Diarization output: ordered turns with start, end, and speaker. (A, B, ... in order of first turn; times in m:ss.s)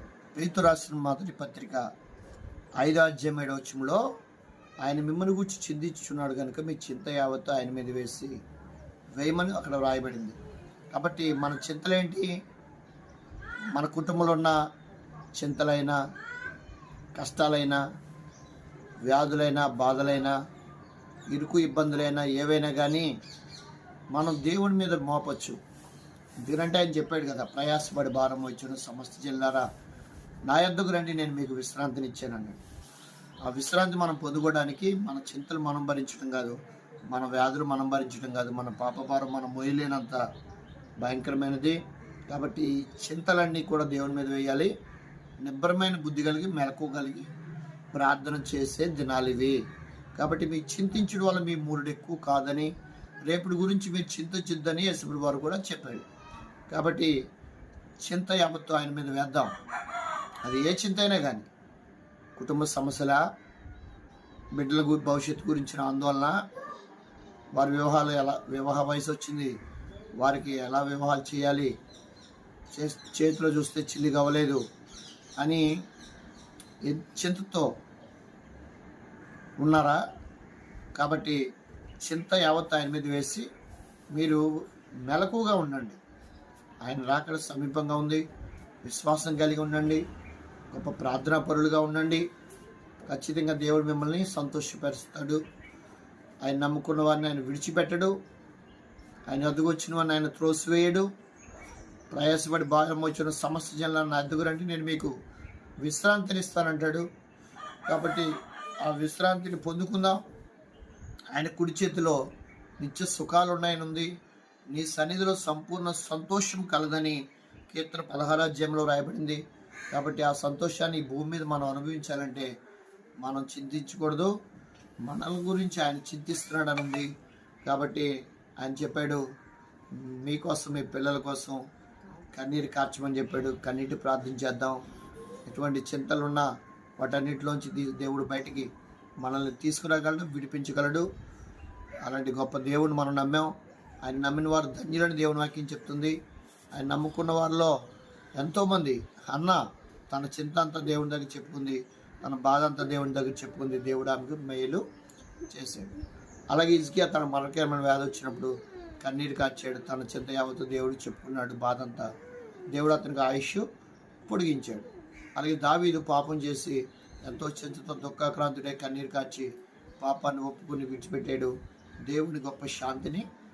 0:00.3-0:01.8 A
0:02.8-0:04.0 A
0:04.8-0:08.4 A
0:09.2-0:10.4 A
0:10.9-0:12.3 A
0:13.7-0:14.6 A
0:15.4-0:16.0 A
0:17.2-0:17.8 A
0:19.0-0:20.3 A
0:21.3-0:23.1 A
0:24.1-0:25.6 A
0:26.4-0:29.6 A
0:30.5-0:32.6 A
0:33.4-0:36.6 A
0:37.1-0:40.2 A
0:41.0-0:44.7 A
0:45.4-0:47.3 A
0:47.9-0:49.6 A
0:50.2-0:52.7 A
0:53.2-0:56.0 A
0:56.7-0:57.1 A
0:58.0-0:59.5 A
1:00.4-1:01.5 A
1:02.4-1:03.2 A
1:04.5-1:06.4 A
1:07.5-1:09.5 A
1:10.2-1:11.7 A
1:12.7-1:14.6 A
1:15.4-1:15.6 A
1:16.8-1:17.7 A
1:19.6-1:20.0 A
1:21.0-1:21.4 A
1:22.0-1:23.5 A
1:24.1-1:24.4 A
1:25.0-1:26.0 A
1:26.8-1:28.2 A
1:28.8-1:30.0 A
1:30.7-1:32.2 A
1:33.1-1:35.4 A
1:36.4-1:38.1 A
1:39.3-1:41.1 A
1:42.1-1:45.1 A
1:45.8-1:47.0 A
1:47.8-1:50.2 A
1:51.3-1:52.2 A
1:52.8-1:54.1 A
1:54.7-1:57.2 A
1:57.7-1:59.4 A
1:59.9-2:02.5 A
2:03.2-2:04.3 A
2:05.0-2:07.1 A
2:07.6-2:09.2 A
2:09.9-2:11.6 A
2:12.3-2:14.8 A
2:15.5-2:16.5 A
2:17.0-2:18.7 A
2:19.2-2:21.0 A
2:22.0-2:26.2 A
2:26.7-2:27.7 A
2:28.4-2:34.8 A
2:35.5-2:35.9 A
2:36.5-2:42.1 A
2:42.7-2:43.6 A
2:44.2-2:51.5 A
2:52.1-2:53.2 A